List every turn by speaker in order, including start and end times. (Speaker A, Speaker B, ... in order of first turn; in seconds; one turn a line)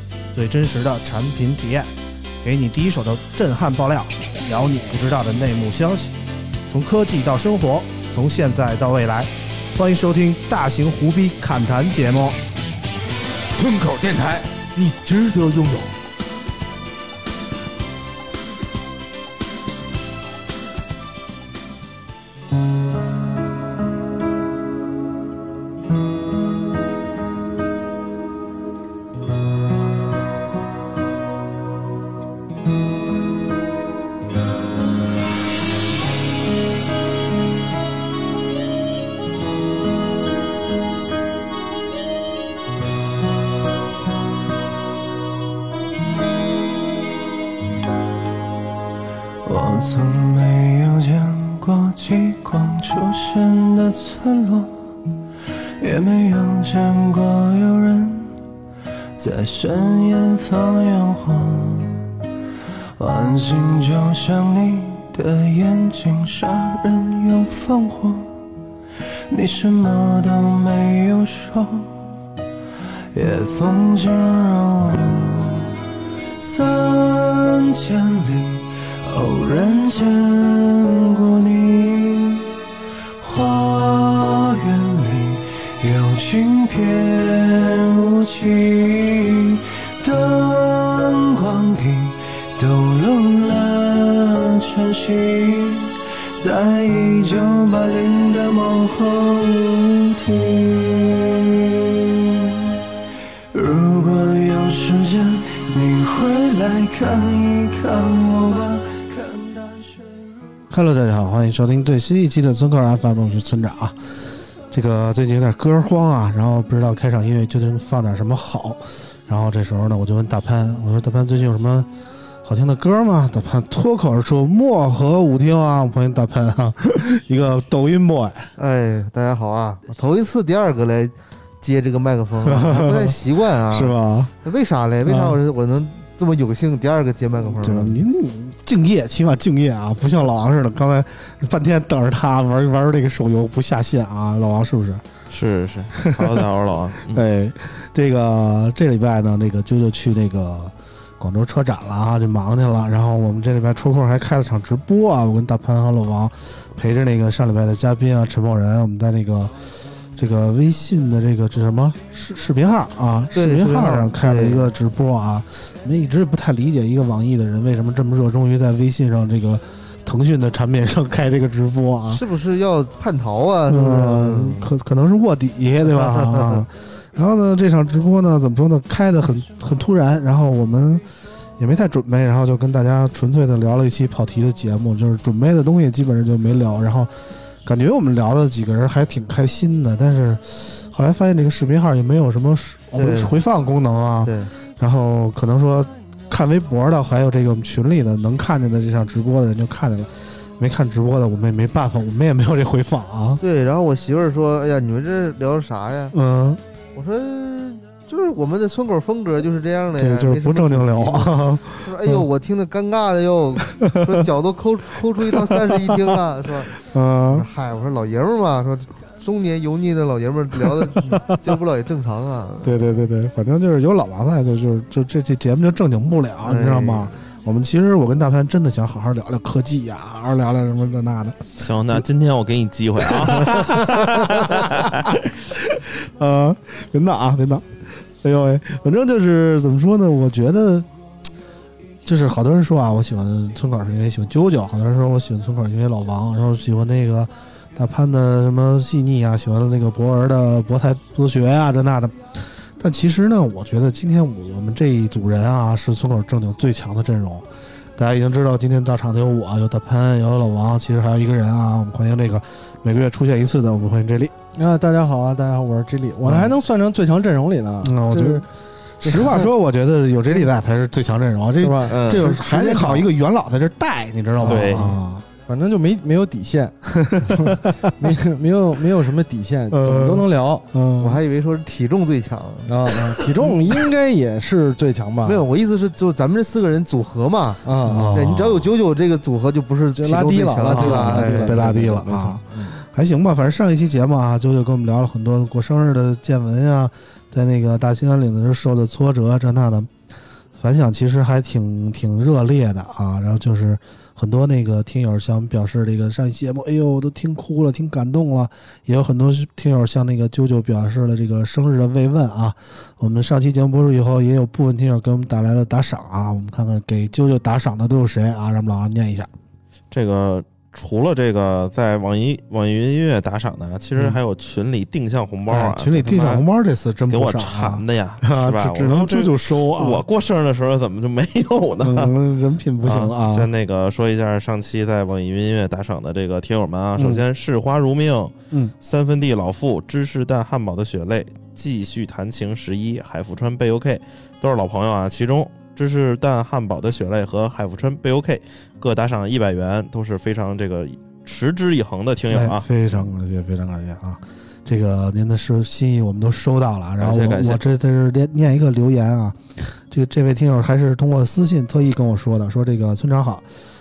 Speaker A: 0.3-1.9
Speaker A: 2.4-6.2
Speaker A: 6.7-12.4
Speaker B: 13.5-15.9
Speaker C: 49.5-54.8
Speaker C: 55.8-58.4
Speaker C: 59.2-62.1
Speaker C: 63.0-68.3
Speaker C: 69.3-72.0
Speaker C: 73.1-75.7
Speaker C: 76.4-82.5
Speaker C: 83.2-102.8
Speaker C: 103.5-110.6
Speaker A: 110.7-114.0
Speaker A: 114.7-121.9
Speaker A: 122.4-128.5
Speaker D: 128.6-138.0
Speaker A: 132.4-133.2
Speaker A: 133.7-134.3
Speaker A: 135.1-135.4
Speaker A: 137.5-145.0
Speaker E: 145.3-147.3
Speaker A: 146.0-146.4
Speaker A: 147.1-159.5
Speaker A: 160.2-172.2
Speaker D: 163.3-164.7
Speaker D: 172.1-174.7
Speaker A: 173.7-181.0
Speaker D: 175.9-176.7
Speaker A: 181.6-187.1
Speaker A: 187.7-203.4
Speaker D: 192.9-193.4
Speaker D: 194.2-194.5
Speaker D: 203.4-206.2
Speaker A: 206.1-206.6
Speaker D: 207.0-216.7
Speaker A: 210.0-212.2
Speaker A: 213.6-214.2
Speaker A: 215.2-216.2
Speaker A: 216.8-217.5
Speaker D: 217.3-222.8
Speaker A: 221.1-221.4
Speaker A: 222.6-232.1
Speaker D: 226.4-227.1
Speaker E: 231.6-235.2
Speaker A: 233.0-237.7
Speaker A: 238.2-240.9
Speaker A: 242.1-252.2
Speaker A: 252.8-257.5
Speaker A: 258.0-264.3
Speaker F: 264.6-268.4
Speaker A: 266.2-266.5
Speaker A: 267.8-268.5
Speaker A: 269.0-275.2
Speaker F: 269.0-269.5
Speaker F: 271.6-273.1
Speaker E: 271.9-272.3
Speaker F: 274.4-280.7
Speaker E: 274.4-274.9
Speaker A: 276.9-278.1
Speaker A: 279.7-281.2
Speaker D: 281.0-283.1
Speaker F: 282.7-285.4
Speaker A: 283.4-283.8
Speaker D: 285.2-292.0
Speaker F: 287.6-288.2
Speaker A: 287.8-288.7
Speaker F: 290.0-292.8
Speaker A: 290.7-299.9
Speaker A: 300.6-319.3
Speaker E: 319.9-326.5
Speaker A: 325.5-330.1
Speaker E: 327.1-332.1
Speaker A: 331.8-333.5
Speaker E: 332.8-353.1
Speaker A: 337.0-337.2
Speaker A: 352.3-363.4
Speaker E: 357.0-357.6